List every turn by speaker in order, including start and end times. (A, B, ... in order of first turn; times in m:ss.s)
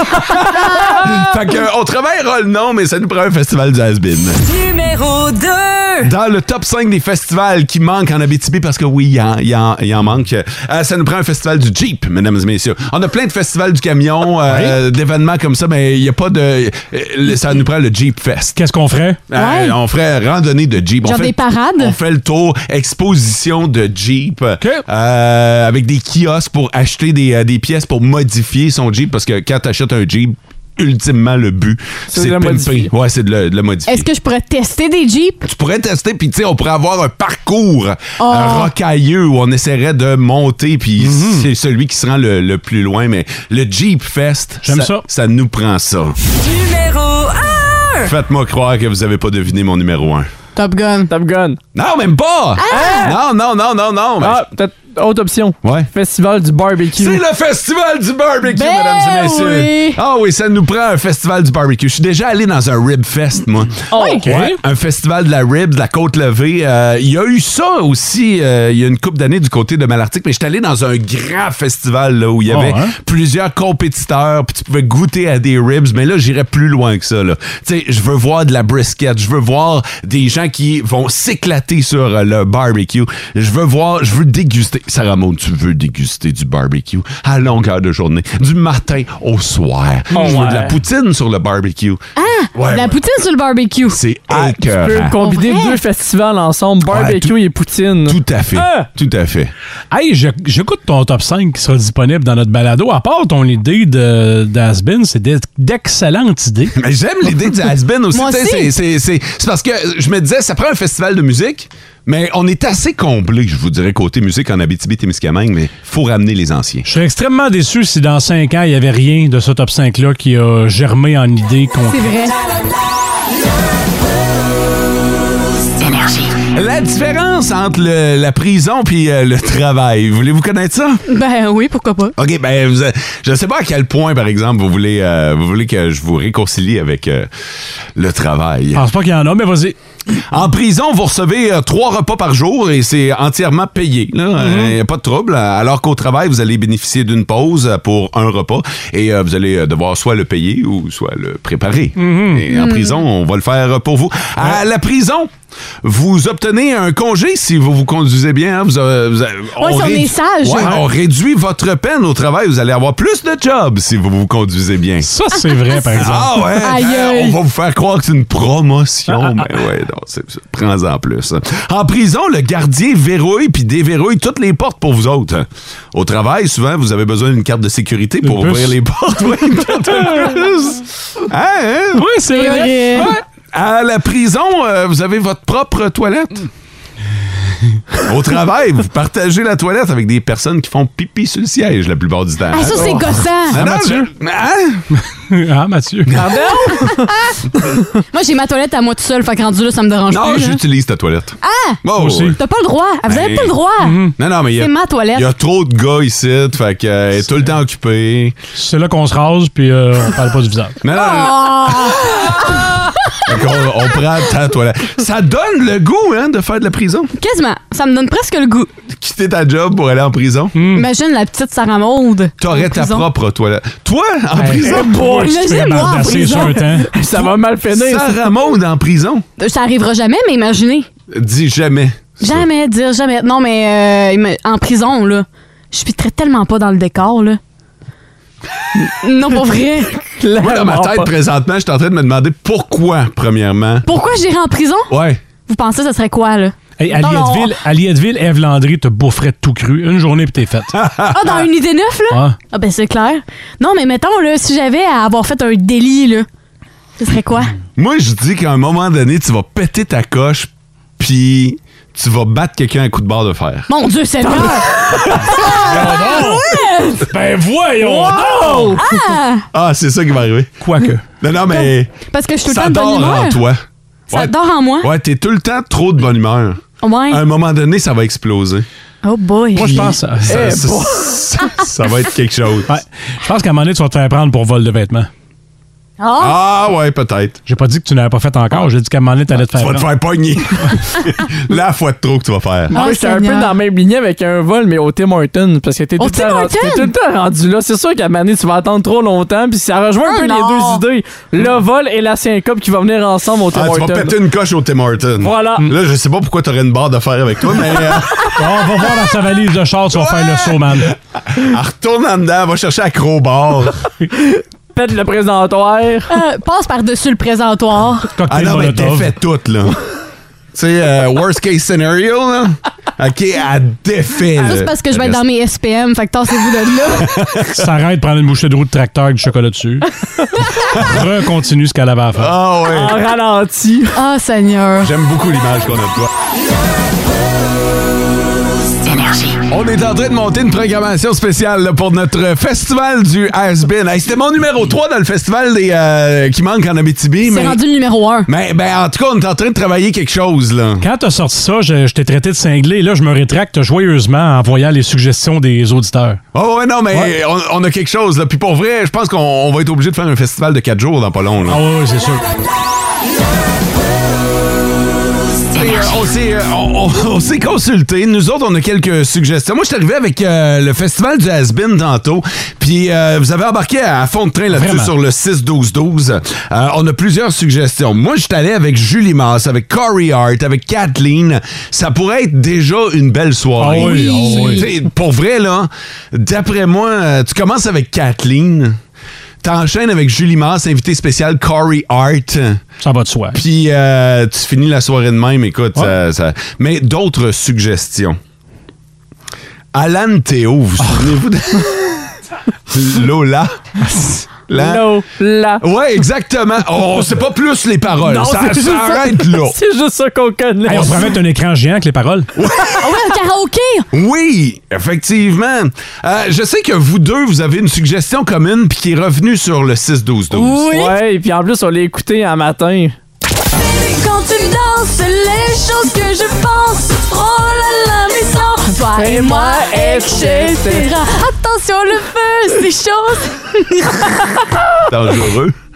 0:00.2-0:04.4 A
0:04.4-0:06.1 B
0:06.0-0:18.6 A
0:14.5-0:14.8 C
0:18.6-0:19.2 C
0:19.3-0:34.1 A
0:19.4-0:19.8 D
0:21.0-0:22.0 D
0:32.1-0:32.9 E
0:33.9-0:35.5 D
0:35.4-0:46.2 A
0:38.2-0:38.7 D
0:41.0-0:41.5 C
0:44.6-0:45.0 C
0:46.4-0:48.1 B
0:48.0-0:50.3 A
0:50.6-0:51.1 D
0:51.1-0:51.6 E
0:51.8-0:54.4 A
0:52.6-0:53.1 D
0:52.7-0:53.2 E
0:54.2-0:57.2 E
0:55.6-0:55.9 A
0:57.0-1:32.0 A
0:58.5-1:00.0 D
1:03.9-1:04.3 E
1:04.0-1:04.6 C
1:12.5-1:12.9 C
1:30.1-1:30.8 E
1:30.2-1:30.4 C
1:32.2-1:34.0 D
1:32.5-1:33.0 A
1:33.9-1:35.2 A
1:34.3-1:38.9 E
1:35.2-1:35.8 D
1:36.8-1:37.3 A
1:38.0-1:39.5 A
1:39.9-1:46.8 C
1:46.8-1:56.9 A
1:48.1-1:48.7 D
1:56.8-2:02.1 C
2:01.9-2:02.4 D
2:05.8-2:06.3 B
2:06.5-2:11.0 A
2:11.1-2:12.2 D
2:12.2-2:17.3 A
2:18.0-2:18.8 A
2:18.8-2:19.8 C
2:20.2-2:35.3 A
2:24.4-2:24.7 C
2:32.0-2:32.4 C
2:32.5-2:33.0 D
2:35.8-2:45.1 A
2:39.6-2:40.8 D
2:45.0-2:46.5 C
2:46.0-3:02.1 A
2:46.5-2:47.4 D
2:58.2-2:58.8 C
3:00.0-3:00.3 C
3:02.0-3:03.2 C
3:02.3-3:03.2 D
3:03.5-3:06.5 A
3:08.0-3:14.9 A
3:12.5-3:13.6 D
3:13.5-3:14.1 C
3:15.0-3:16.2 C
3:16.1-3:16.8 A
3:16.2-3:17.1 E
3:16.7-3:17.3 D
3:18.1-3:20.6 D
3:20.1-3:22.4 A
3:21.4-3:21.8 D
3:22.0-3:22.4 C
3:22.4-3:24.0 D
3:23.1-3:23.6 A
3:23.8-3:24.2 C
3:24.2-3:28.4 A
3:24.6-3:25.3 D
3:28.6-3:30.8 C
3:30.8-3:32.2 A
3:30.9-3:33.2 D
3:33.2-3:37.1 A
3:37.2-3:38.7 D
3:38.9-3:40.6 A
3:40.6-3:40.9 C
3:40.7-3:43.1 D
3:42.4-3:45.0 A
3:44.4-3:46.9 C
3:44.7-3:45.3 E
3:45.1-3:46.6 D
3:46.7-3:48.3 E
3:47.7-3:49.2 A
3:49.4-3:50.9 D
3:51.1-3:52.5 A
3:52.2-3:57.4 D
3:59.0-4:00.0 D
4:00.2-4:01.1 E
4:00.4-4:03.9 A
4:03.8-4:04.9 D
4:04.9-4:05.2 A
4:05.5-4:07.5 D
4:06.8-4:10.8 C
4:10.8-4:11.5 A
4:11.1-4:16.3 D
4:12.1-4:12.4 C
4:17.0-4:17.5 D
4:17.8-4:23.7 A
4:23.7-4:27.0 D
4:25.3-4:25.9 A
4:25.6-4:28.8 C
4:27.8-4:28.8 E
4:28.8-4:29.4 D
4:29.5-4:30.7 A
4:30.6-4:31.0 C
4:31.2-4:31.9 A
4:31.5-4:33.4 D
4:32.5-4:38.7 A
4:34.1-4:34.9 D
4:36.8-4:37.2 D
4:39.0-4:39.9 D
4:39.6-4:40.5 C
4:39.6-4:42.7 A
4:40.3-4:41.1 E
4:42.7-4:45.1 C
4:46.0-4:46.4 D
4:46.2-4:47.4 A
4:47.5-4:49.9 C
4:49.5-4:52.8 A
4:52.7-5:04.2 E
4:52.7-4:53.5 D
4:56.0-4:56.9 D
5:00.1-5:00.8 D
5:03.5-5:08.5 A
5:05.2-5:05.7 E
5:08.4-5:10.9 C
5:09.9-5:13.8 A
5:14.2-5:16.1 E
5:16.1-5:18.1 D
5:18.2-5:19.1 C
5:18.3-5:19.8 A
5:20.5-5:25.2 A
5:24.4-5:27.2 D
5:26.9-5:27.6 A
5:27.6-5:29.9 C
5:30.6-5:32.3 C
5:30.7-5:31.0 A
5:32.2-5:33.0 A
5:32.7-5:34.0 E
5:34.0-5:34.9 D
5:34.8-5:36.1 A
5:39.5-5:47.6 A
5:47.2-5:48.3 D
5:48.3-5:50.9 A
5:50.8-5:56.2 C
5:56.3-6:01.6 A
6:01.5-6:02.2 C
6:05.5-6:28.8 A
6:14.5-6:14.9 C
6:23.6-6:24.7 C
6:23.8-6:24.6 D
6:29.4-6:32.6 A
6:32.8-6:33.4 C
6:33.3-6:38.2 A
6:39.7-6:42.1 A
6:42.7-6:43.6 A
6:44.5-6:44.9 A
6:44.5-6:45.6 E
6:45.6-6:49.6 A
6:48.0-6:51.2 E
6:50.7-6:52.3 C
6:50.7-6:51.0 A
6:52.4-6:52.8 A
6:52.8-6:53.9 D
6:53.9-7:00.7 A
7:00.3-7:00.9 D
7:00.7-7:03.0 E
7:03.6-7:14.4 D
7:08.9-7:10.9 E
7:14.9-7:15.6 A